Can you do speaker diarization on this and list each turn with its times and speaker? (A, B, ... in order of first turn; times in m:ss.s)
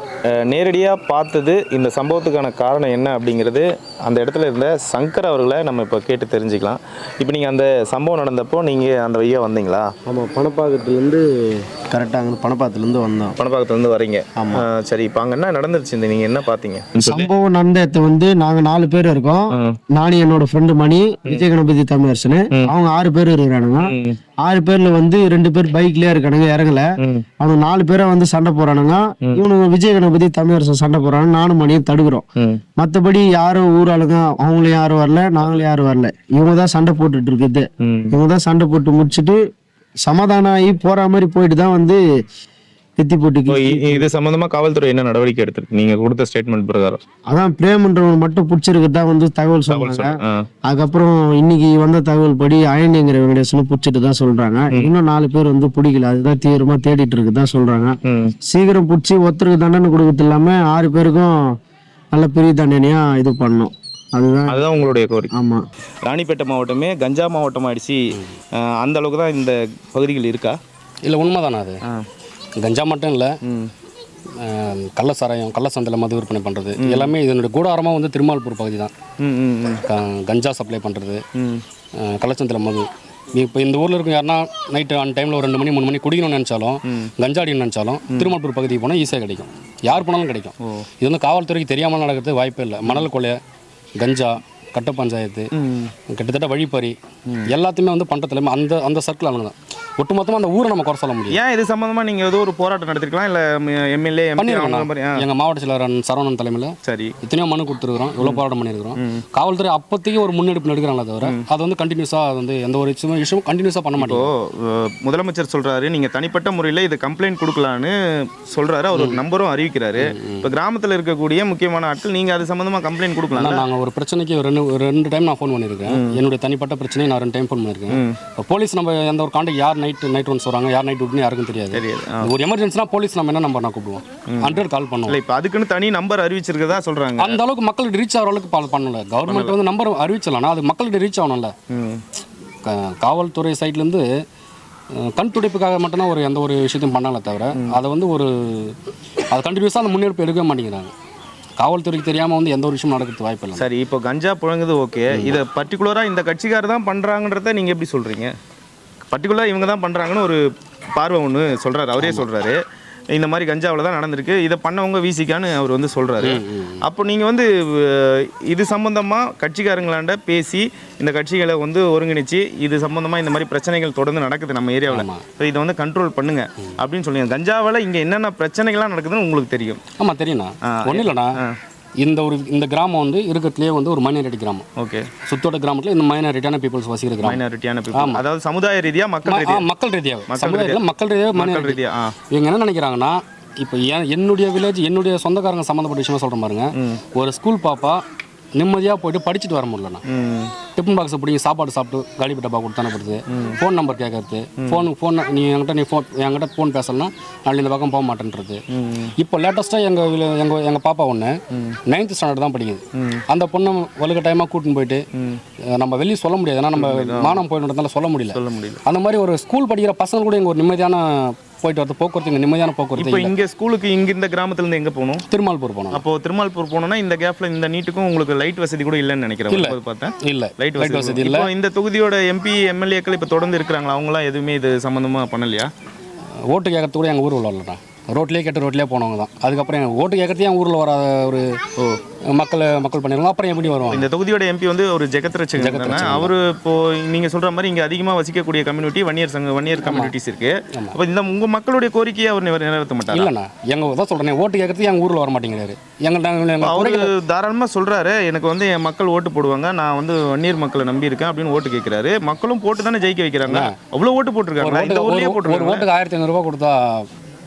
0:00.4-0:09.9 A
0:10.1-0:13.4 B
0:13.4-0:17.3 A
0:14.4-0:14.6 B
0:17.0-0:26.8 B
0:19.5-0:19.8 A
0:23.8-0:24.2 A
0:27.4-0:32.2 B
0:32.8-0:39.4 B
0:37.8-0:38.1 A
0:40.0-0:42.0 B
0:43.0-0:44.0 B
0:43.5-0:47.0 A
0:47.3-1:01.3 B
0:49.7-0:50.5 A
0:58.1-0:58.3 A
1:02.1-1:04.6 B
1:04.5-1:05.3 A
1:05.3-1:05.6 B
1:06.0-1:08.0 A
1:08.6-1:10.6 A
1:11.0-1:11.8 C
1:12.6-1:13.3 C
1:13.4-1:13.7 A
1:14.4-1:18.9 C
1:16.8-1:17.1 A
1:19.2-1:19.8 A
1:19.9-1:21.2 C
1:21.4-1:21.6 A
1:22.0-1:33.4 C
1:28.1-1:28.3 A
1:34.0-1:35.5 C
1:35.5-1:35.9 A
1:36.1-1:37.0 C
1:37.5-1:41.4 C
1:41.3-1:45.2 A
1:44.4-1:54.3 C
1:46.8-1:47.1 A
1:49.0-1:49.2 A
1:54.0-2:03.6 A
1:59.0-1:59.2 C
2:00.0-2:00.5 C
2:03.4-2:15.2 C
2:05.9-2:06.2 A
2:07.9-2:08.2 A
2:11.7-2:12.3 A
2:14.3-2:17.4 A
2:17.2-2:21.5 C
2:19.3-2:19.6 A
2:21.7-2:22.0 A
2:22.6-2:24.1 C
2:25.0-2:28.8 C
2:29.3-2:30.9 C
2:31.6-2:33.6 C
2:33.6-2:38.3 A
2:39.1-2:40.4 A
2:41.0-2:42.6 A
2:42.0-2:42.2 C
2:43.1-2:59.8 A
2:46.2-2:46.8 C
2:54.9-2:55.2 C
3:00.0-3:01.4 C
3:00.7-3:01.6 A
3:02.0-3:04.7 C
3:04.8-3:05.1 A
3:05.3-3:07.4 C
3:07.2-3:09.7 A
3:07.9-3:08.2 C
3:09.3-3:11.8 C
3:10.3-3:10.8 A
3:11.4-3:12.1 A
3:12.3-3:18.0 C
3:16.8-3:17.0 A
3:18.6-3:20.0 C
3:20.1-3:20.5 A
3:20.8-3:28.6 C
3:23.3-3:23.6 A
3:24.6-3:24.9 A
3:28.7-3:29.1 A
3:29.2-3:31.4 C
3:31.5-3:31.8 A
3:31.9-3:35.0 C
3:33.0-3:33.2 A
3:35.1-3:35.4 A
3:35.8-3:43.3 C
3:36.8-3:37.4 A
3:38.3-3:38.8 A
3:43.0-3:45.2 A
3:45.3-3:46.0 C
3:45.9-3:55.7 A
3:49.5-3:51.5 C
3:56.5-4:01.5 C
4:02.3-4:04.1 C
4:03.9-4:13.3 A
4:05.6-4:06.3 C
4:09.8-4:10.1 C
4:13.1-4:17.1 C
4:16.6-4:25.8 A
4:23.5-4:23.7 C
4:24.6-4:27.1 C